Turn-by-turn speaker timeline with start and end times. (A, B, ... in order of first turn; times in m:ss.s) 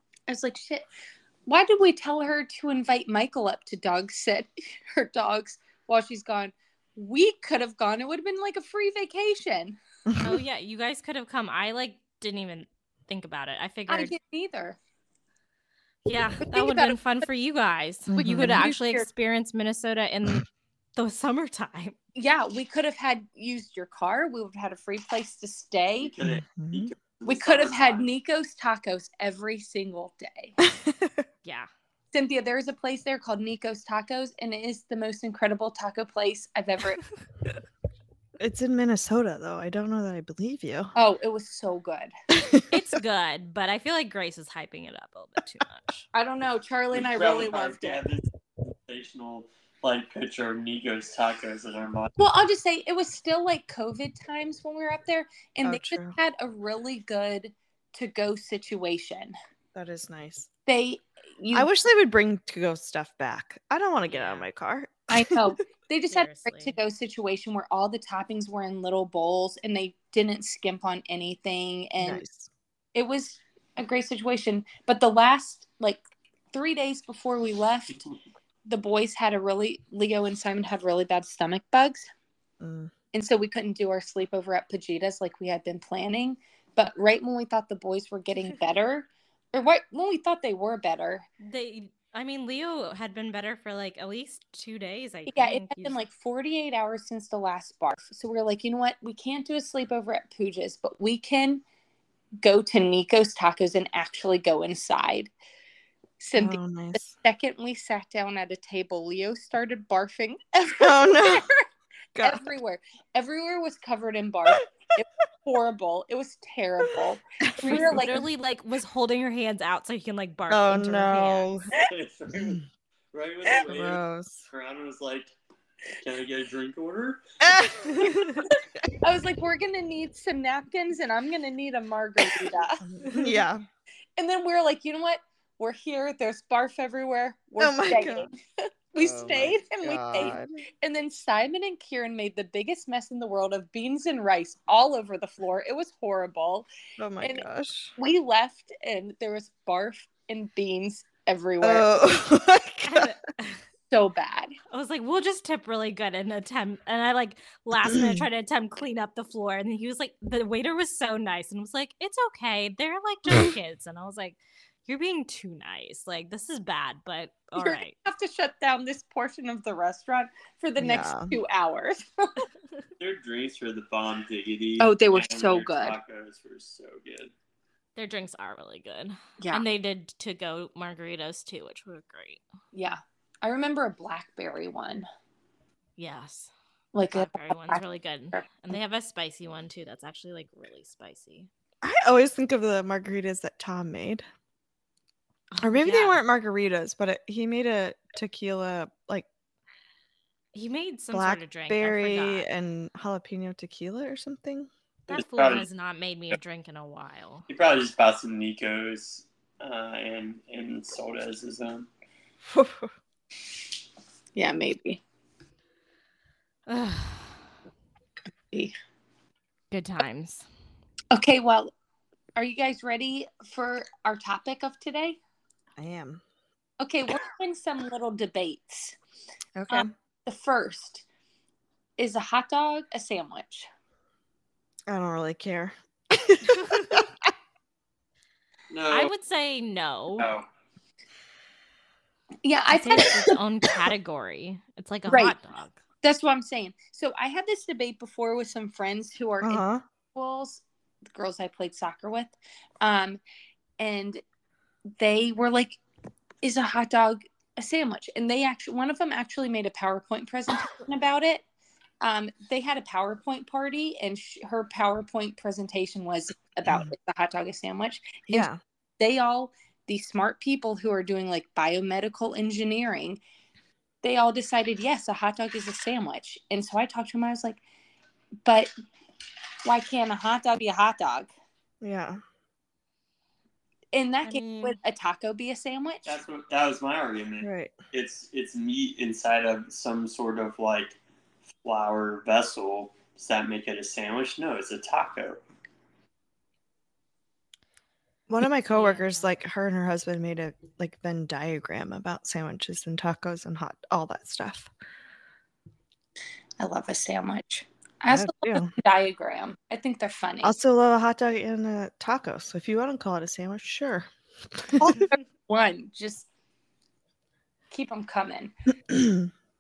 0:00.3-0:00.8 A
0:01.5-0:09.8 A
0:10.1-0:10.4 B
0:10.2-0:14.1 C
0:13.9-0:14.8 A
0:16.0-0:22.0 C
0:16.4-0:17.0 A
0:18.1-0:18.7 B
0:18.2-0:19.1 A
0:22.1-0:26.1 A
0:26.0-0:28.1 D
0:26.2-0:26.9 B
0:27.2-0:30.5 A
0:30.6-0:31.2 B
0:31.4-0:31.7 C
0:32.1-0:37.0 A
0:38.4-0:40.9 B
0:40.9-0:42.1 A
0:42.3-0:42.8 B
0:42.7-0:46.0 C
0:46.1-0:48.0 A
0:46.9-0:52.1 D
0:52.2-0:59.3 A
0:55.6-0:56.2 B
0:59.7-1:00.5 B
1:00.7-1:01.7 A
1:01.5-1:05.4 B
1:04.1-1:04.5 C
1:05.1-1:12.2 A
1:06.1-1:06.8 C
1:12.0-1:12.5 B
1:12.9-1:16.0 A
1:16.5-1:18.0 A
1:18.7-1:22.0 A
1:22.6-1:22.9 B
1:23.1-1:31.2 A
1:31.4-1:36.0 C
1:35.3-1:41.6 A
1:42.4-1:45.3 A
1:46.2-1:51.6 A
1:46.3-1:47.1 B
1:50.8-1:51.5 B
1:52.1-1:52.5 B
1:52.2-1:58.2 A
1:57.4-1:58.1 B
1:57.6-2:01.5 C
2:00.5-2:01.7 B
2:01.8-2:05.3 D
2:02.4-2:02.6 B
2:03.6-2:04.4 B
2:06.0-2:07.2 D
2:07.4-2:08.4 B
2:08.0-2:08.4 C
2:09.0-2:12.8 A
2:12.8-2:13.6 B
2:14.2-2:18.3 A
2:17.6-2:18.3 B
2:18.9-2:26.7 A
2:19.0-2:20.6 B
2:27.0-2:27.9 B
2:28.0-2:32.2 A
2:31.6-2:33.1 B
2:32.8-2:33.6 C
2:33.9-2:34.6 A
2:34.7-2:48.0 C
2:37.8-2:38.2 B
2:47.6-2:52.4 A
2:50.8-2:51.3 B
2:53.0-2:57.3 D
2:54.8-2:56.0 A
2:58.0-3:02.4 C
3:02.7-3:05.0 A
3:06.0-3:06.5 C
3:06.9-3:07.8 A
3:07.1-3:11.5 C
3:11.8-3:14.2 B
3:15.5-3:16.2 C
3:15.6-3:19.2 B
3:20.5-3:22.5 C
3:21.1-3:24.7 B
3:25.1-3:27.5 C
3:25.1-3:25.6 D
3:27.5-3:31.9 D
3:32.4-3:32.9 B
3:34.4-3:35.0 A
3:36.7-3:37.4 C
3:39.7-3:40.4 C
3:41.1-3:41.7 A
3:42.4-3:45.2 A
3:45.8-3:46.2 B
3:46.8-3:49.0 A
3:49.6-3:49.9 B
3:49.7-3:51.0 A
3:52.0-3:53.7 A
3:54.9-3:57.1 B
3:56.6-3:56.9 C
3:58.7-3:59.1 D
3:58.9-4:00.3 C
4:00.2-4:00.4 D
4:02.4-4:03.3 A
4:02.7-4:05.8 C
4:05.1-4:05.3 A
4:06.0-4:09.6 A
4:09.4-4:09.8 B
4:10.1-4:13.2 A
4:13.8-4:14.2 A
4:15.0-4:15.8 A
4:16.4-4:21.4 A
4:22.0-4:28.5 A
4:28.3-4:28.6 B
4:29.0-4:33.2 A
4:34.0-4:37.6 A
4:38.4-4:38.7 A
4:39.6-4:41.3 A
4:41.8-4:42.2 B
4:43.9-4:46.2 A
4:44.2-4:44.8 C
4:46.0-4:51.0 D
4:47.4-4:47.7 B
4:51.6-4:55.4 D
4:58.3-5:04.7 B
4:58.6-4:59.3 C
5:06.6-5:10.6 A
5:08.1-5:08.7 B
5:10.4-5:15.0 B
5:14.8-5:16.3 A
5:17.7-5:18.5 A
5:18.9-5:19.3 B